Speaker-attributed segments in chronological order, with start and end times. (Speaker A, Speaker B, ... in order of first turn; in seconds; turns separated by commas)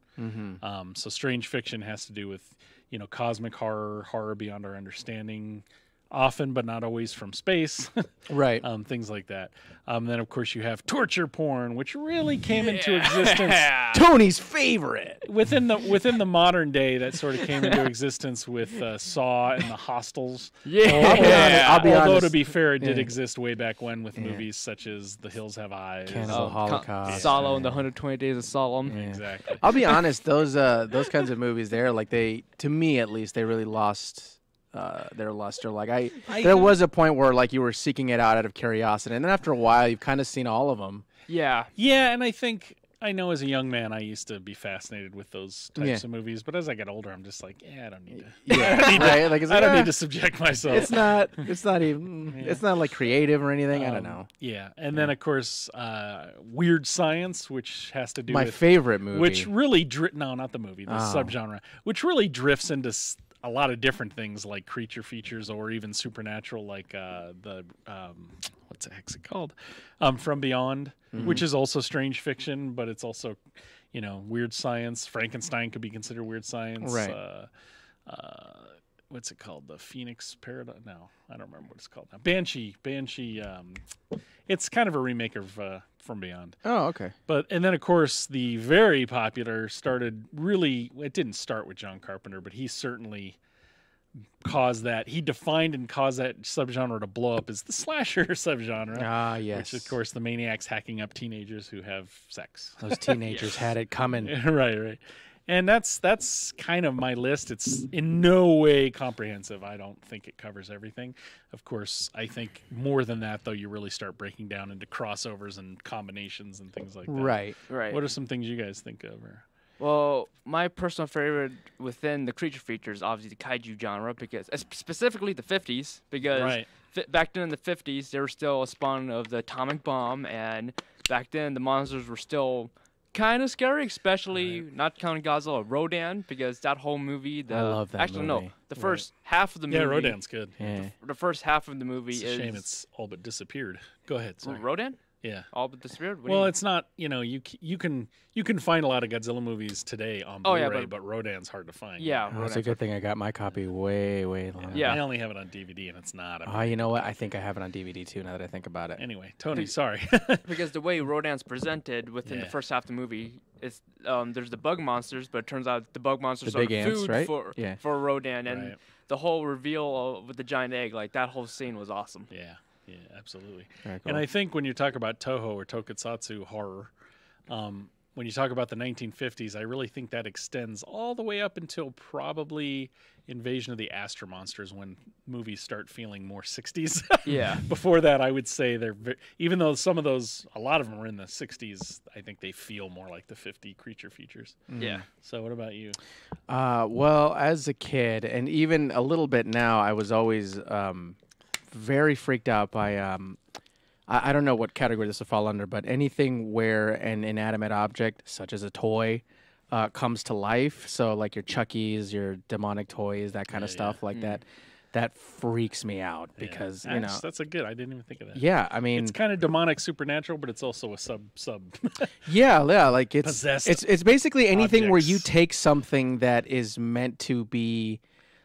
Speaker A: 0.2-0.6, Speaker B: 0.6-13.7, Speaker A: 8.3-8.6, Speaker C: 12.4-14.0, Speaker A: 13.9-15.2, Speaker B: 15.2-27.4, Speaker C: 17.4-17.8, Speaker C: 20.6-22.1, Speaker A: 21.0-23.1, Speaker A: 24.1-24.4, Speaker A: 26.1-27.8, Speaker C: 26.2-29.0, Speaker A: 28.9-41.0, Speaker B: 28.9-30.0, Speaker B: 36.3-36.7, Speaker C: 41.3-41.7, Speaker B: 41.8-51.5, Speaker A: 45.8-46.0, Speaker A: 48.4-49.9, Speaker C: 48.5-49.2, Speaker A: 50.7-54.3, Speaker B: 52.3-52.6, Speaker B: 53.7-77.5, Speaker A: 58.3-59.5, Speaker A: 60.9-61.4, Speaker A: 71.1-71.4, Speaker A: 76.8-77.2, Speaker B: 78.0-83.8, Speaker B: 84.5-86.6, Speaker A: 86.6-87.1, Speaker B: 87.3-93.4, Speaker B: 94.4-103.1, Speaker A: 98.9-99.9, Speaker A: 102.8-104.3, Speaker C: 103.2-103.6, Speaker B: 104.2-119.4, Speaker A: 117.1-117.5, Speaker C: 117.7-118.0, Speaker C: 119.8-142.6, Speaker B: 126.3-126.7, Speaker B: 134.3-134.6, Speaker A: 137.5-138.5, Speaker B: 138.8-139.1, Speaker B: 139.7-140.8, Speaker A: 140.6-140.9, Speaker B: 142.1-144.6, Speaker C: 144.4-146.5, Speaker B: 145.2-145.5, Speaker B: 146.2-152.3, Speaker C: 150.4-150.9, Speaker C: 152.0-152.8, Speaker A: 152.3-155.0, Speaker B: 154.6-157.0, Speaker C: 154.7-155.0, Speaker A: 156.4-159.0, Speaker B: 159.0-160.5, Speaker C: 160.4-172.3, Speaker B: 162.2-162.5, Speaker A: 166.4-167.8, Speaker B: 168.5-168.8, Speaker B: 172.3-176.9, Speaker A: 173.8-174.2, Speaker B: 177.5-196.0, Speaker C: 187.2-187.7, Speaker A: 194.7-195.0, Speaker C: 194.8-195.0, Speaker A: 196.5-201.2, Speaker A: 201.7-203.4, Speaker A: 204.1-217.2, Speaker B: 213.5-214.3, Speaker B: 216.4-222.2, Speaker A: 218.3-219.2, Speaker A: 222.2-228.0, Speaker B: 223.2-223.9, Speaker B: 224.5-225.3